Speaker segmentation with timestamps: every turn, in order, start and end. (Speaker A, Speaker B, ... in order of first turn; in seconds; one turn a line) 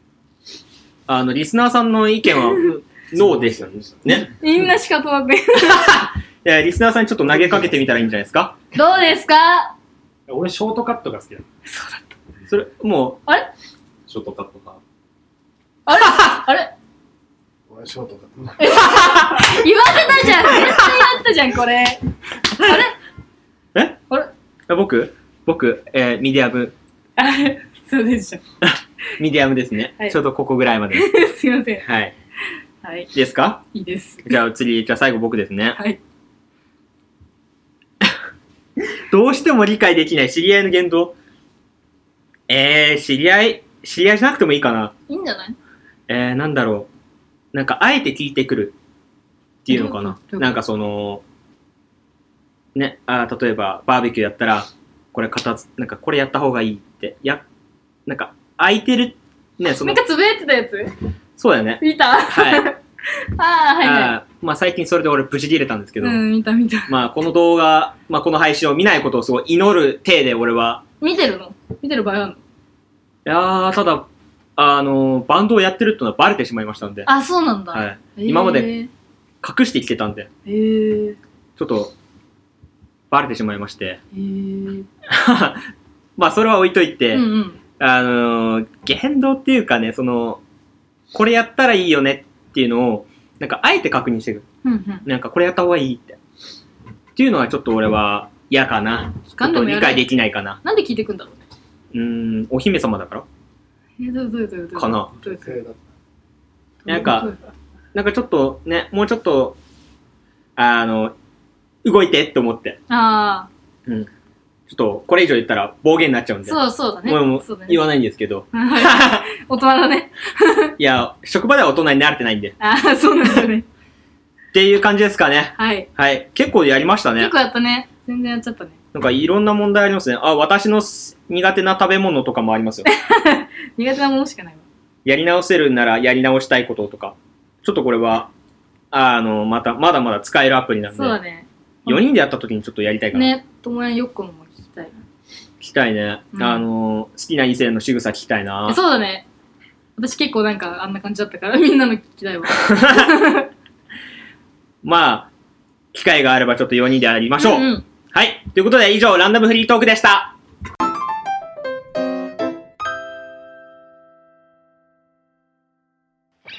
Speaker A: 1.1-4.3
Speaker B: 3.4-4.1
Speaker C: 4.3-6.1
Speaker A: 5.6-8.6
Speaker C: 8.7-9.8
Speaker B: 10.3-11.4
Speaker C: 11.7-12.1
Speaker A: 12.5-13.2
Speaker C: 13.3-13.5
Speaker B: 14.1-14.8
Speaker C: 15.9-16.7
Speaker B: 17.7-18.5
Speaker C: 18.6-22.0
Speaker C: 22.6-22.9
Speaker A: 24.7-26.7
Speaker C: 27.2-28.4
Speaker A: 28.6-31.1
Speaker C: 30.9-31.9
Speaker A: 31.8-32.1
Speaker C: 32.8-33.1
Speaker A: 33.1-33.6
Speaker C: 33.7-34.4
Speaker A: 34.2-35.8
Speaker A: 39.1-41.1
Speaker A: 42.5-44.9
Speaker C: 45.1-45.6
Speaker A: 46.1-46.9
Speaker A: 47.5-48.8
Speaker A: 49.6-51.2
Speaker C: 49.7-50.5
Speaker A: 52.8-57.4
Speaker A: 58.1-60.0
Speaker C: 59.8-60.9
Speaker A: 61.4-62.7
Speaker C: 61.8-64.2
Speaker A: 63.8-66.2
Speaker C: 66.0-66.9
Speaker A: 66.9-70.8
Speaker C: 71.0-72.4
Speaker A: 73.2-77.1
Speaker C: 77.1-78.9
Speaker A: 77.7-78.7
Speaker A: 79.4-80.3
Speaker C: 80.5-81.2
Speaker A: 81.6-81.9
Speaker A: 83.1-84.0
Speaker C: 84.1-84.9
Speaker A: 85.1-87.3
Speaker C: 87.1-87.6
Speaker A: 87.8-90.4
Speaker A: 91.1-94.5
Speaker C: 94.6-95.1
Speaker A: 95.0-96.2
Speaker A: 97.2-100.6
Speaker C: 99.3-101.5
Speaker A: 101.9-103.3
Speaker C: 104.0-105.6
Speaker A: 104.8-105.1
Speaker C: 106.8-107.4
Speaker A: 106.9-107.3
Speaker A: 107.9-109.6
Speaker A: 110.6-111.2
Speaker A: 111.8-112.8
Speaker C: 112.9-113.5
Speaker A: 114.7-119.3
Speaker C: 116.5-117.8
Speaker C: 118.5-120.7
Speaker A: 120.8-122.6
Speaker C: 122.6-123.7
Speaker A: 124.5-127.3
Speaker C: 125.6-125.9
Speaker C: 127.2-128.8
Speaker A: 128.9-132.9
Speaker C: 132.9-134.6
Speaker A: 135.1-138.3
Speaker A: 138.9-141.2
Speaker C: 140.9-142.1
Speaker A: 141.9-143.3
Speaker C: 143.1-145.0
Speaker A: 145.6-148.8
Speaker C: 146.3-146.6
Speaker C: 148.7-149.3
Speaker C: 150.0-153.5
Speaker A: 152.7-153.1
Speaker A: 154.8-155.3
Speaker A: 155.9-160.3
Speaker C: 157.4-157.8